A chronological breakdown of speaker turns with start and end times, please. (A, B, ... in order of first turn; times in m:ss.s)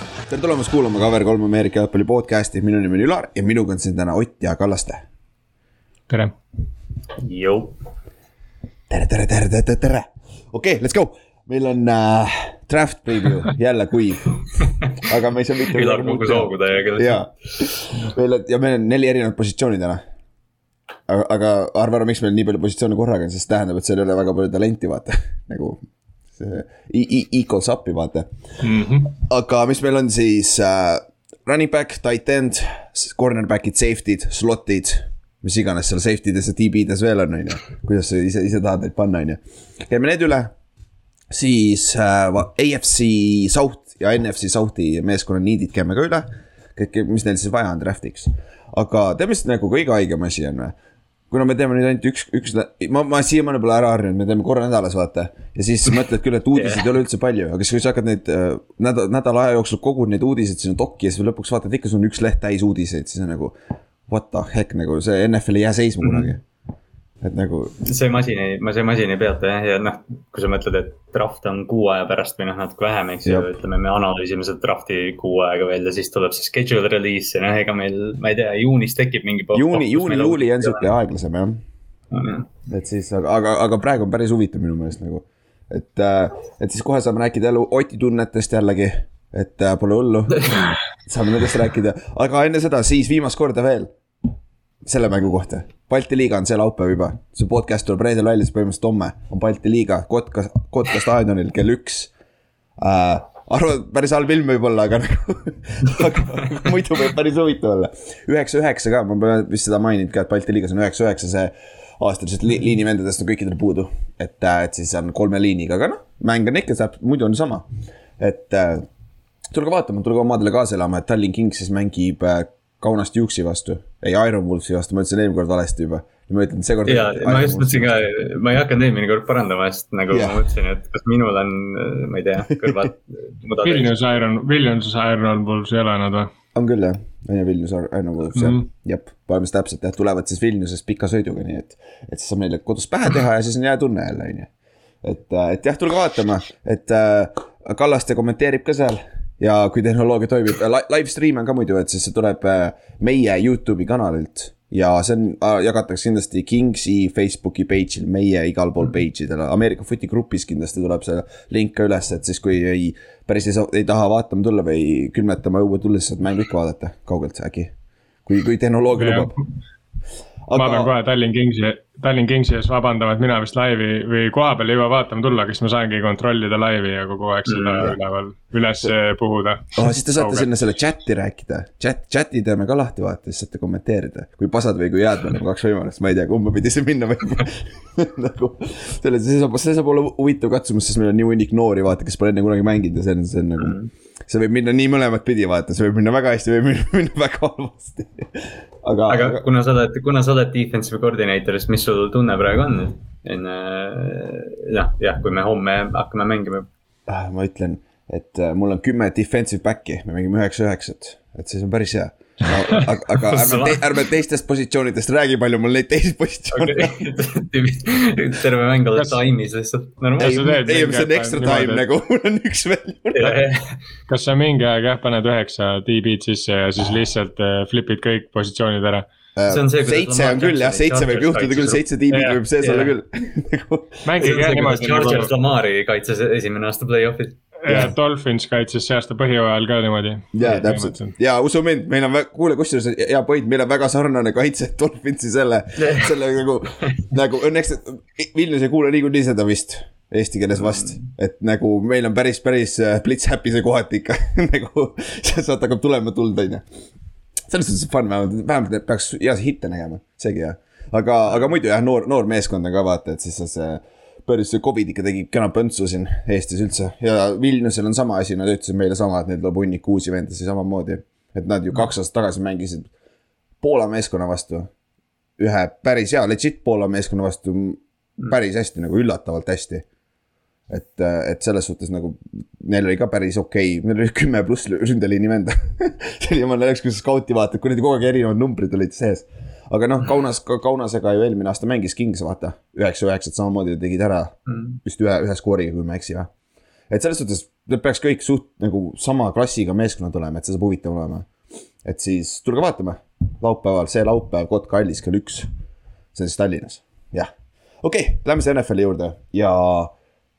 0:00.3-0:05.1 A
0:06.1-0:06.4 B
0:07.2-0:07.8 C
0:08.9-0:20.0 A
0:15.7-0:17.6 C
0:21.1-0:28.3 A
0:28.6-0:29.1 B
0:29.1-0:40.5 A
0:41.3-0:50.7 A
0:51.3-1:03.6 A
0:56.5-0:56.9 C
1:04.1-1:06.4 A
1:06.0-1:06.3 C
1:07.2-1:07.8 A
1:07.8-1:20.9 C
1:13.2-1:13.5 A
1:19.5-1:21.6 A
1:22.1-1:22.5 C
1:22.7-1:33.9 A
1:30.4-1:30.7 C
1:34.8-1:42.1 A
1:42.8-1:57.7 A
1:58.2-1:58.9 A
1:59.5-2:08.0 A
2:06.9-2:14.0 C
2:10.1-2:10.5 A
2:12.6-2:12.9 A
2:13.6-2:16.3 B
2:16.5-2:24.5 A
2:18.3-2:18.7 B
2:25.0-2:47.7 A
2:48.2-2:49.3 A
2:49.0-2:49.3 B
2:50.5-2:50.9 A
2:50.5-3:00.5 B
2:57.5-2:57.9 C
2:59.7-3:19.4 A
3:13.6-3:13.9 C
3:19.1-3:26.7 C
3:27.1-3:37.1 A
3:33.1-3:34.0 C
3:36.5-3:40.4 C
3:40.2-3:41.8 B
3:40.2-3:43.4 A
3:43.1-3:43.8 C
3:44.1-3:49.1 B
3:49.4-3:54.1 A
3:49.5-3:51.8 C
3:52.1-3:52.9 B
3:54.0-3:55.3 B
3:54.2-3:57.4 C
3:57.6-4:01.2 B
3:57.7-3:57.9 A
4:00.3-4:16.7 A
4:05.8-4:06.2 C
4:06.8-4:07.1 C
4:10.6-4:11.1 C
4:17.5-4:32.9 A
4:33.6-4:34.7 A
4:35.4-4:39.8 A
4:40.7-4:56.3 A
4:54.5-4:54.8 C
4:56.9-5:01.3 A
5:01.8-5:05.5 A
5:06.1-5:07.3 A
5:07.8-5:09.9 A